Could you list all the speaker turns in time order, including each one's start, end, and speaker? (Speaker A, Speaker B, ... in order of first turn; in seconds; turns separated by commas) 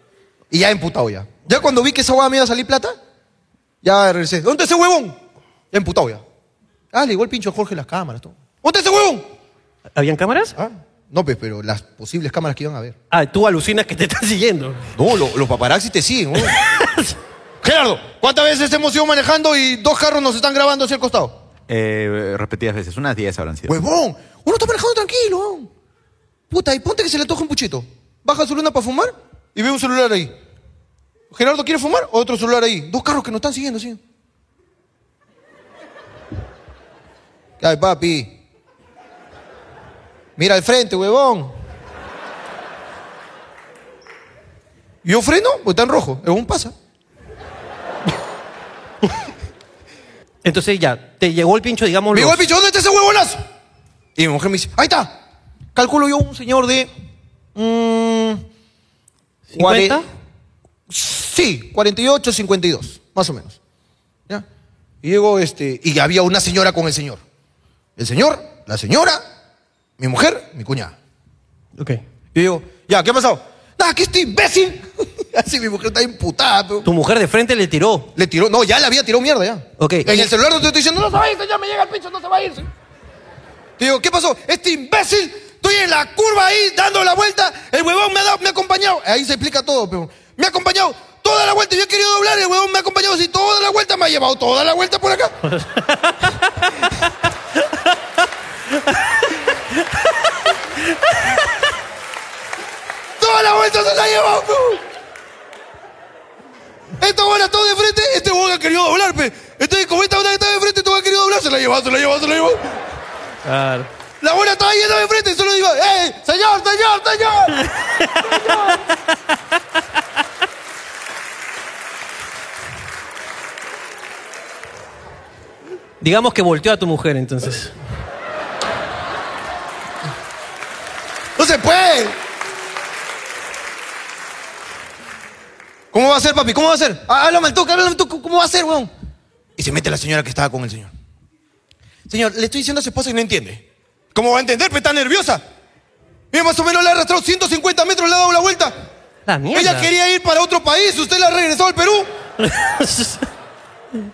Speaker A: 0.5-3.0, Speaker A: 3.8-5.2, Speaker A: 5.7-6.2, Speaker A: 6.9-9.3, Speaker B: 9.9-10.6, Speaker A: 10.6-12.9, Speaker B: 13.1-14.8, Speaker A: 14.9-16.6, Speaker B: 16.4-17.1, Speaker A: 17.6-21.4, Speaker C: 21.7-23.7, Speaker A: 23.7-25.7, Speaker A: 26.5-30.3, Speaker A: 31.3-34.0, Speaker A: 37.6-38.3, Speaker A: 40.4-41.5, Speaker A: 45.0-46.7, Speaker B: 50.4-52.4, Speaker A: 52.1-53.4, Speaker A: 54.1-55.2, Speaker A: 55.7-56.9, Speaker A: 57.5-58.4, Speaker B: 59.5-60.0, Speaker A: 59.5-60.0, Speaker A: 60.9-63.6, Speaker A: 65.0-67.2, Speaker A: 68.0-69.2, Speaker A: 70.0-70.9, Speaker A: 72.3-76.9, Speaker B: 76.8-78.1, Speaker A: 78.1-82.7, Speaker B: 79.8-80.3, Speaker A: 83.8-95.3, Speaker B: 95.5-96.9, Speaker A: 103.2-104.8, Speaker A: 107.0-112.8, Speaker B: 113.4-113.9, Speaker A: 114.2-117.6, Speaker B: 117.7-118.8, Speaker A: 118.2-118.8, Speaker B: 126.0-127.7, Speaker A: 131.4-132.2, Speaker A: 135.9-138.9, Speaker A: 139.6-140.9, Speaker A: 142.1-145.4, Speaker A: 146.3-148.7, Speaker B: 149.3-149.9, Speaker A: 149.5-152.1, Speaker B: 152.4-153.3